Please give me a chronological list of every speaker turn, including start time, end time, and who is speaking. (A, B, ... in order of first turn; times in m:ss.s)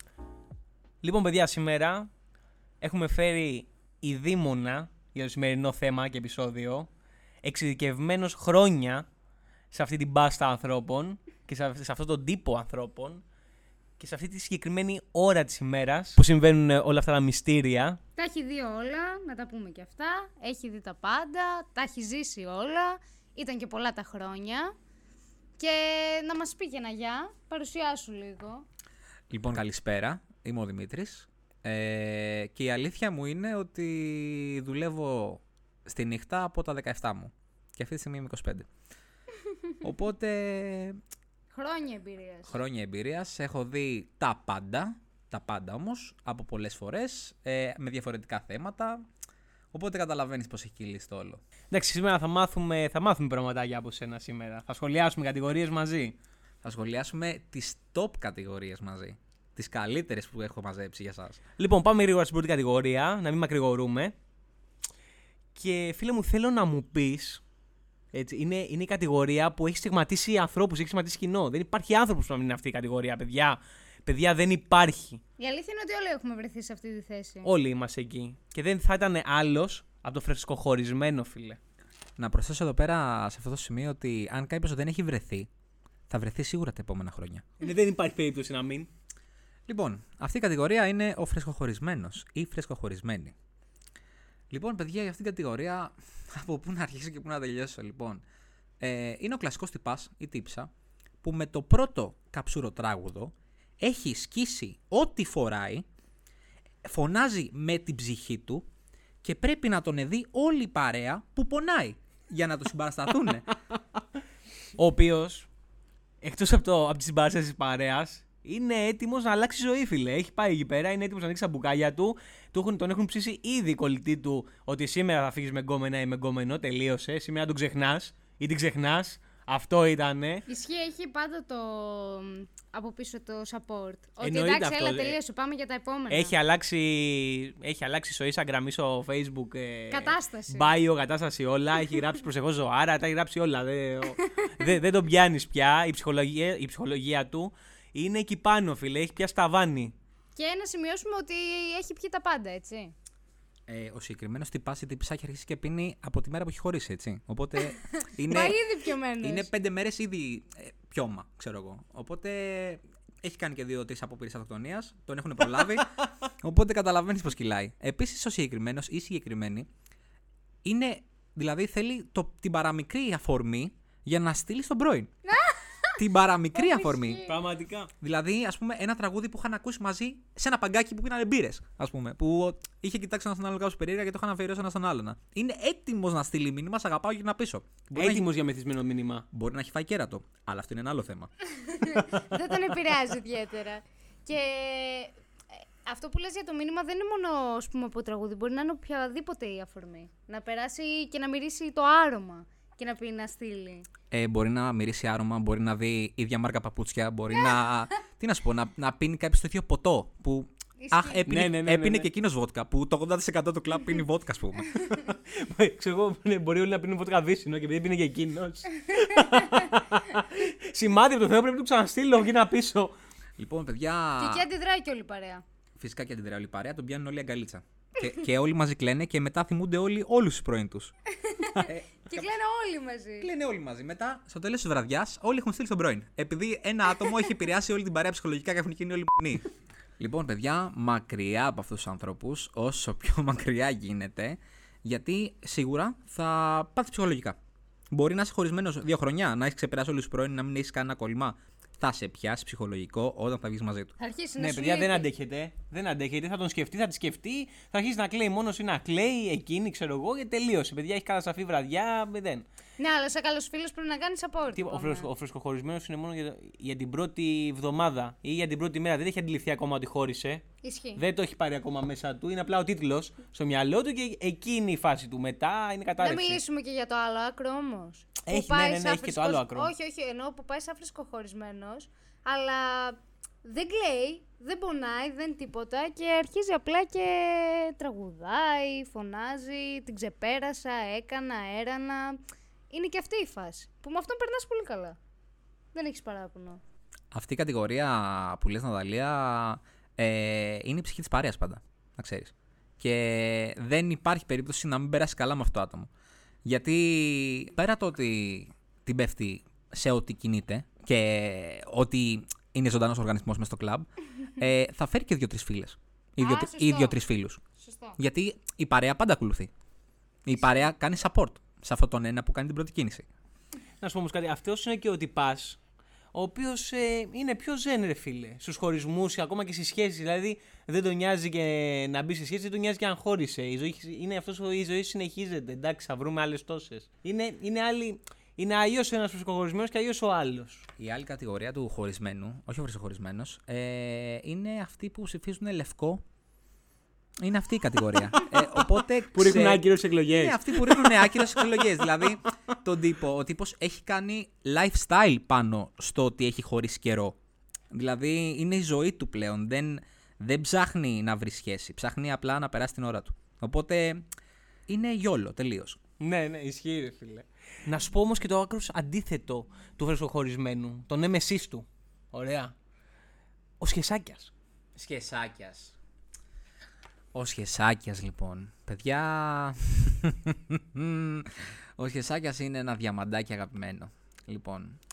0:01.0-0:02.1 A
0:02.8-0:06.9 A
0:07.4-0:09.0 A
0:09.7-0:13.2 A
0:14.0-0:18.0 A
0:18.2-0:24.7 B
0:25.6-0:28.7 B
0:29.3-0:38.7 C
0:39.8-0:41.0 C
0:41.5-0:42.6 B
0:42.5-0:49.0 C
0:49.7-0:51.4 C
0:51.7-0:56.2 A
0:56.6-1:01.4 C
1:01.6-1:04.2 A
1:05.6-1:07.4 A
1:08.1-1:15.2 A
1:15.4-1:17.5 B
1:17.4-1:21.6 A
1:22.2-1:25.5 C
1:26.1-1:27.5 C
1:27.6-1:28.9 A
1:29.7-1:33.4 C
1:34.5-1:38.2 C
1:38.8-1:40.7 C
1:41.2-1:45.9 C
1:46.8-1:48.7 C
1:49.2-1:53.5 C
1:54.8-1:55.5 A
1:56.2-2:10.5 A
2:10.5-2:16.4 B
2:14.2-2:15.2 A
2:16.1-2:29.9 A
2:19.9-2:20.7 B
2:24.3-2:24.7 B
2:30.4-2:32.9 B
2:33.7-2:38.6 C
2:37.8-2:39.5 B
2:39.2-2:49.7 C
2:50.6-2:55.1 C
2:55.3-2:56.0 B
2:56.0-2:57.3 C
2:56.5-2:57.4 B
2:57.3-2:57.9 A
2:58.0-3:08.3 C
3:07.9-3:09.3 A
3:09.3-3:11.3 C
3:11.6-3:15.2 B
3:15.8-3:23.9 B
3:24.1-3:34.7 C
3:27.3-3:27.6 B
3:30.8-3:31.3 B
3:31.3-3:32.1 A
3:35.0-3:42.9 A
3:38.9-3:39.5 B
3:43.4-3:44.5 C
3:44.2-3:45.4 B
3:45.8-3:50.9 C
3:51.1-3:53.3 B
3:51.6-3:52.3 C
3:53.2-3:59.5 C
4:00.0-4:07.4 C
4:07.9-4:13.9 C
4:14.0-4:15.1 B
4:14.4-4:22.4 A
4:22.8-4:25.1 B
4:24.6-4:30.4 A
4:30.6-4:31.0 B
4:31.0-4:36.4 A
4:36.0-4:52.2 B
4:38.2-4:39.7 A
4:52.7-4:55.0 B
4:55.7-4:56.6 B
4:57.1-5:05.9 C
5:06.4-5:17.4 C
5:16.2-5:17.0 B
5:17.6-5:18.0 B
5:18.0-5:19.5 C
5:20.2-5:23.1 C
5:23.8-5:25.6 A
5:26.1-5:40.7 A
5:40.8-5:46.0 C
5:47.2-5:57.2 C
5:48.1-5:48.6 A
5:49.1-5:51.8 A
5:57.7-6:04.1 C
6:04.7-6:05.8 C
6:06.0-6:12.5 A
6:13.6-6:14.3 A
6:14.8-6:15.8 C
6:17.1-6:24.8 C